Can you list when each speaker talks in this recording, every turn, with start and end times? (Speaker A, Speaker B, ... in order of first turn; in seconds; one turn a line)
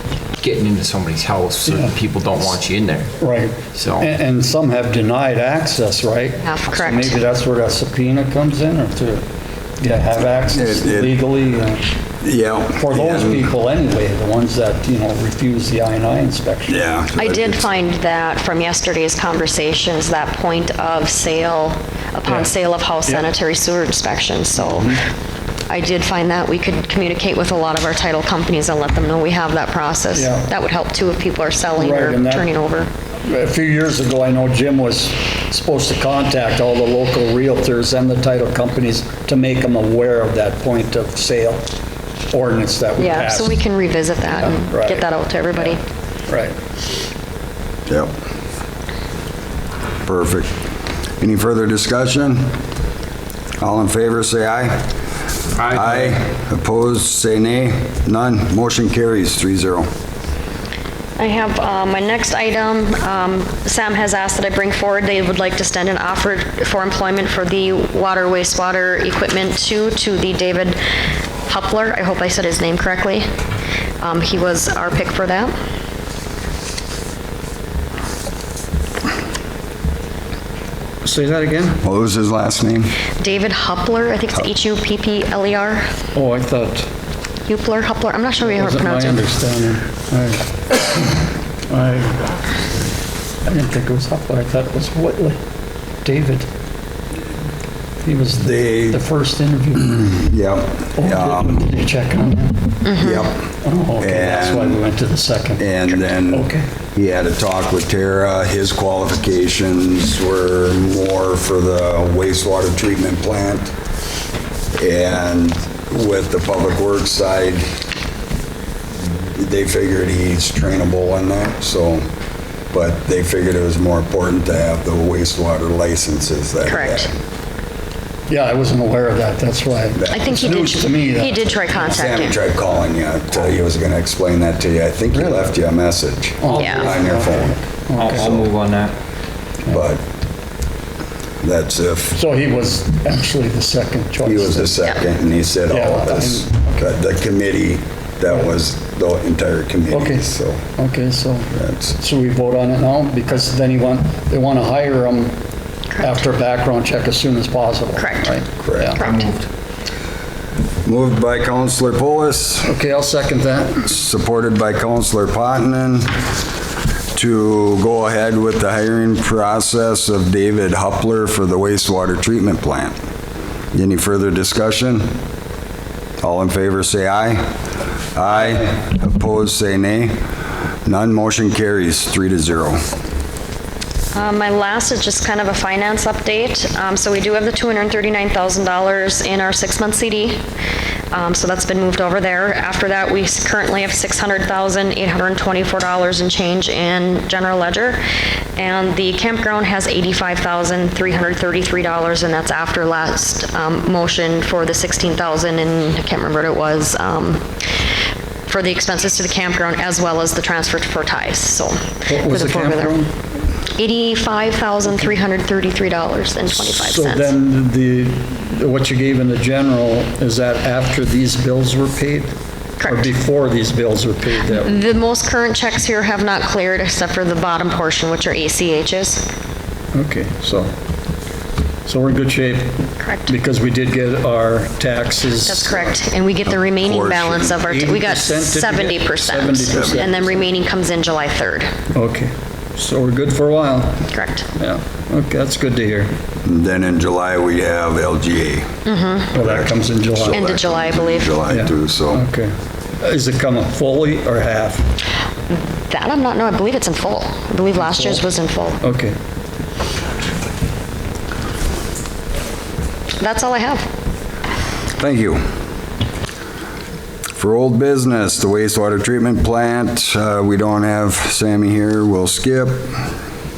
Speaker A: 0.4-3.1
Speaker B: 1.7-1.9
Speaker B: 3.2-9.2
Speaker A: 3.8-4.1
Speaker C: 6.4-7.2
Speaker B: 9.8-11.9
Speaker D: 10.4-11.2
Speaker D: 12.2-13.5
Speaker B: 12.8-16.9
Speaker D: 16.7-17.6
Speaker C: 17.1-25.0
Speaker B: 24.6-25.0
Speaker C: 25.7-32.9
Speaker B: 30.1-30.5
Speaker B: 31.8-32.5
Speaker B: 33.2-41.6
Speaker B: 42.3-43.6
Speaker C: 43.0-45.8
Speaker B: 44.4-45.0
Speaker B: 46.3-46.6
Speaker D: 47.9-48.1
Speaker D: 50.1-50.5
Speaker D: 51.2-52.6
Speaker D: 53.6-54.9
Speaker A: 55.6-56.1
Speaker D: 55.6-59.9
Speaker C: 61.2-70.8
Speaker C: 71.5-73.3
Speaker C: 74.0-75.5
Speaker B: 81.0-81.8
Speaker D: 81.8-83.0
Speaker C: 83.2-85.9
Speaker B: 86.2-86.9
Speaker C: 87.5-89.2
Speaker B: 88.4-92.4
Speaker B: 93.5-95.4
Speaker B: 96.0-96.5
Speaker B: 98.0-100.1
Speaker D: 98.4-99.0
Speaker D: 99.9-101.7
Speaker B: 101.0-102.9
Speaker C: 102.8-103.3
Speaker D: 103.0-103.5
Speaker B: 103.6-105.7
Speaker D: 104.0-104.8
Speaker D: 105.6-113.7
Speaker B: 106.3-106.7
Speaker D: 114.8-117.7
Speaker D: 119.3-122.0
Speaker D: 122.7-127.1
Speaker C: 126.7-127.1
Speaker B: 128.3-131.9
Speaker D: 130.0-130.4
Speaker C: 130.1-132.4
Speaker D: 131.7-137.6
Speaker B: 135.1-135.5
Speaker B: 136.4-138.3
Speaker A: 136.5-137.0
Speaker C: 136.6-136.9
Speaker A: 138.0-138.9
Speaker D: 138.1-138.5
Speaker D: 139.7-140.0
Speaker D: 141.4-142.2
Speaker B: 142.1-144.8
Speaker D: 144.2-150.6
Speaker B: 145.7-146.9
Speaker B: 149.9-155.4
Speaker D: 151.5-151.9
Speaker C: 155.9-156.2
Speaker B: 156.0-159.0
Speaker C: 158.0-158.4
Speaker D: 158.6-159.0
Speaker C: 158.9-159.3
Speaker A: 159.0-159.3
Speaker D: 160.8-162.7
Speaker B: 162.6-163.9
Speaker D: 163.8-166.3
Speaker D: 167.1-172.9
Speaker D: 173.7-175.2
Speaker D: 176.2-177.5
Speaker D: 178.2-180.2
Speaker D: 180.8-182.9
Speaker C: 184.1-190.4
Speaker C: 191.1-198.0
Speaker C: 198.6-207.5
Speaker C: 208.5-212.9
Speaker B: 212.1-213.1
Speaker C: 213.7-217.3
Speaker B: 216.5-222.3
Speaker C: 222.8-223.1
Speaker B: 222.8-224.8
Speaker C: 224.5-229.3
Speaker B: 229.9-230.7
Speaker B: 231.8-236.0
Speaker C: 233.0-233.3
Speaker C: 235.4-241.7
Speaker D: 236.7-237.6
Speaker B: 237.6-240.6
Speaker D: 239.7-240.0
Speaker B: 241.9-246.1
Speaker C: 244.1-244.5
Speaker D: 246.4-248.7
Speaker C: 248.9-249.3
Speaker B: 249.3-250.4
Speaker D: 249.3-252.2
Speaker C: 250.3-251.4
Speaker B: 251.5-254.9
Speaker C: 255.5-258.8
Speaker B: 257.8-258.2
Speaker B: 258.8-259.2
Speaker C: 263.2-263.9
Speaker D: 265.0-265.4
Speaker D: 267.4-273.0